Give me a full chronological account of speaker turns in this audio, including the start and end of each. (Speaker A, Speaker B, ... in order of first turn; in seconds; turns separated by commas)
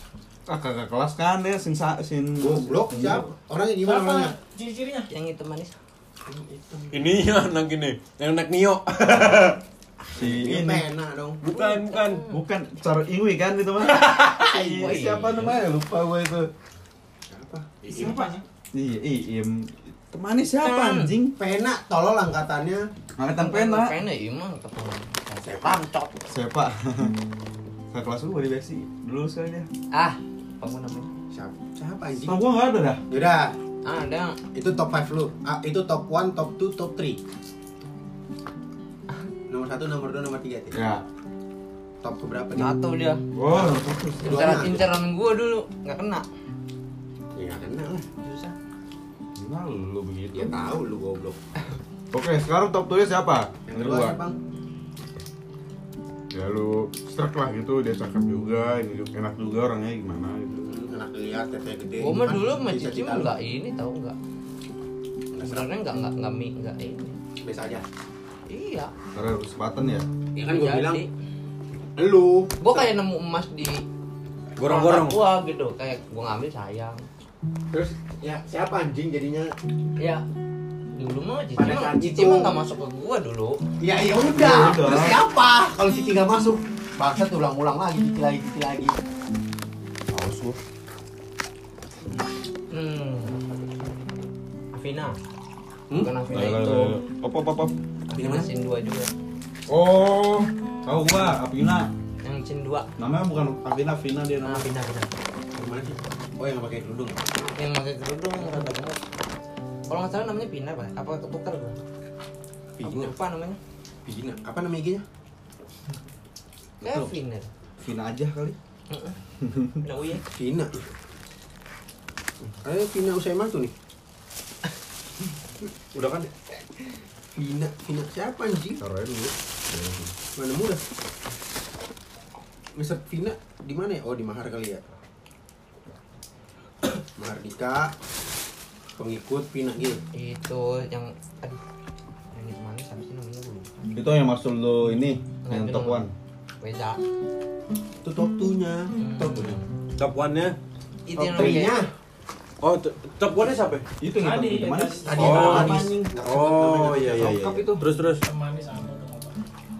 Speaker A: 0.5-3.3, Speaker B: 2.4-4.3, Speaker C: 3.8-5.1, Speaker D: 5.1-5.7, Speaker B: 6.3-7.2, Speaker E: 6.9-9.6, Speaker B: 10.1-11.4, Speaker A: 10.1-10.8, Speaker E: 11.4-12.3, Speaker D: 11.5-12.4, Speaker A: 12.2-16.5, Speaker D: 14.2-15.5, Speaker B: 17.3-18.3, Speaker A: 17.9-21.3, Speaker D: 20.6-21.1, Speaker B: 21.4-22.9, Speaker A: 23.2-24.0, Speaker D: 23.4-26.1, Speaker B: 25.3-26.1, Speaker A: 26.3-27.1, Speaker A: 27.9-29.7, Speaker D: 29.9-31.1, Speaker B: 31.3-32.4, Speaker A: 32.2-33.0, Speaker B: 33.1-33.5, Speaker D: 33.8-34.4, Speaker B: 34.5-37.2, Speaker B: 39.5-40.8, Speaker A: 40.7-41.0, Speaker B: 42.0-42.7, Speaker D: 42.6-43.2, Speaker A: 43.3-44.6, Speaker B: 43.5-44.8, Speaker D: 44.2-46.2, Speaker B: 47.4-48.1, Speaker D: 48.2-48.5, Speaker A: 49.4-50.5, Speaker B: 50.3-51.4, Speaker A: 52.1-54.1, Speaker B: 53.7-54.4, Speaker A: 56.3-60.7, Speaker B: 60.5-63.3, Speaker D: 62.0-64.2, Speaker B: 65.3-65.7, Speaker D: 65.4-67.2, Speaker B: 67.4-67.8, Speaker D: 68.5-68.9, Speaker A: 69.1-70.1, Speaker B: 70.3-71.0, Speaker D: 70.5-71.1, Speaker B: 72.0-72.9, Speaker D: 72.6-73.8, Speaker E: 74.6-75.2, Speaker D: 74.6-77.0, Speaker B: 77.7-79.5, Speaker D: 80.0-80.2, Speaker D: 80.9-83.6, Speaker B: 81.5-82.5, Speaker B: 83.8-88.9, Speaker A: 84.2-85.2, Speaker A: 90.1-90.6, Speaker D: 92.7-93.4, Speaker D: 94.7-95.2, Speaker D: 96.0-96.9, Speaker A: 96.3-97.7, Speaker D: 98.1-99.1, Speaker B: 98.1-98.5, Speaker A: 99.7-101.9, Speaker D: 102.2-102.9, Speaker A: 103.0-104.7, Speaker D: 104.4-105.1, Speaker B: 105.5-107.2, Speaker D: 107.4-109.0, Speaker D: 109.9-111.8, Speaker B: 112.8-113.1, Speaker D: 112.8-113.6, Speaker B: 114.0-115.0, Speaker D: 116.8-117.5, Speaker A: 116.8-117.1, Speaker A: 117.8-118.5, Speaker D: 118.9-119.2, Speaker A: 119.4-119.8, Speaker D: 119.8-120.2, Speaker B: 120.3-120.9, Speaker B: 122.6-123.7, Speaker B: 125.9-126.3, Speaker B: 127.3-128.8, Speaker A: 128.8-130.1, Speaker B: 130.3-130.8, Speaker B: 132.7-134.8, Speaker B: 137.2-137.9, Speaker B: 139.0-140.0, Speaker D: 140.1-141.6, Speaker D: 142.3-143.9, Speaker A: 143.9-146.1, Speaker D: 145.4-146.0, Speaker D: 146.6-147.0, Speaker B: 148.0-149.6, Speaker D: 149.0-149.6, Speaker E: 150.0-150.6, Speaker D: 151.1-151.8, Speaker B: 151.2-151.9, Speaker E: 152.6-153.8, Speaker A: 154.0-157.8, Speaker C: 154.2-155.3, Speaker B: 155.0-157.4, Speaker D: 155.2-155.9, Speaker E: 155.2-158.2, Speaker C: 158.2-159.4